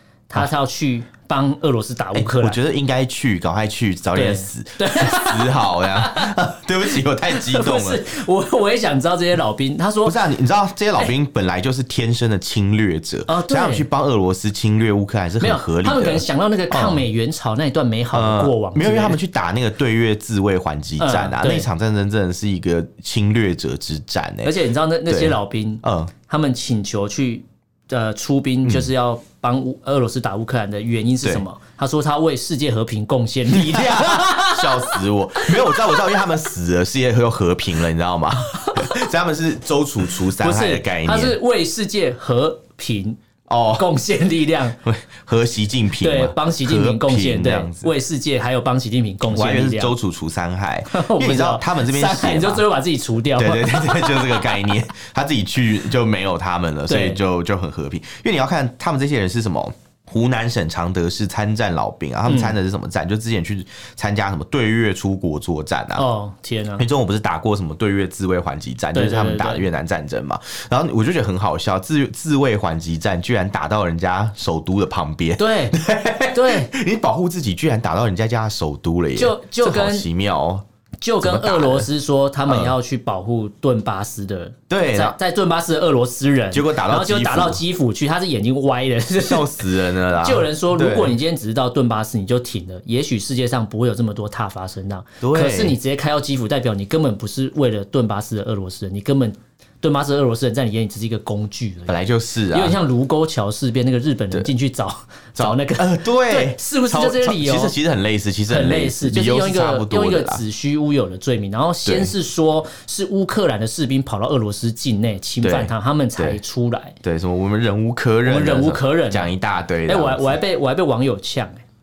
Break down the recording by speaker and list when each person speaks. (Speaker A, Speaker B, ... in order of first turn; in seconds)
Speaker A: 0.3-2.6, 4.1-6.3, 6.9-10.2, 13.3-13.9, 15.4-19.2, 21.0-21.7, 24.4-36.1, 38.5-39.0, 40.3-43.2, 43.7-44.8, 46.0-49.9, 50.9-54.7, 56.9-57.2, 62.3-62.5, 66.0-66.8, 68.9-69.6, 75.4-75.8, 76.3-76.7, 79.2-80.0, 81.0-107.7, 108.5-117.0, 118.2-119.3, 119.8-121.6
Speaker B: 2.1-8.0, 10.0-17.0, 18.1-24.5, 25.1-26.1, 28.6-28.9, 33.5-41.4, 43.5-43.9, 44.8-47.9, 49.3-52.6, 53.4-66.0, 66.8-80.6, 81.2-81.9, 82.5-82.7, 84.7-85.1, 86.5-87.6, 89.2-91.2, 95.2-95.8, 101.9-102.8, 105.3-110.4, 111.8-112.1, 115.4-116.4, 117.0-120.4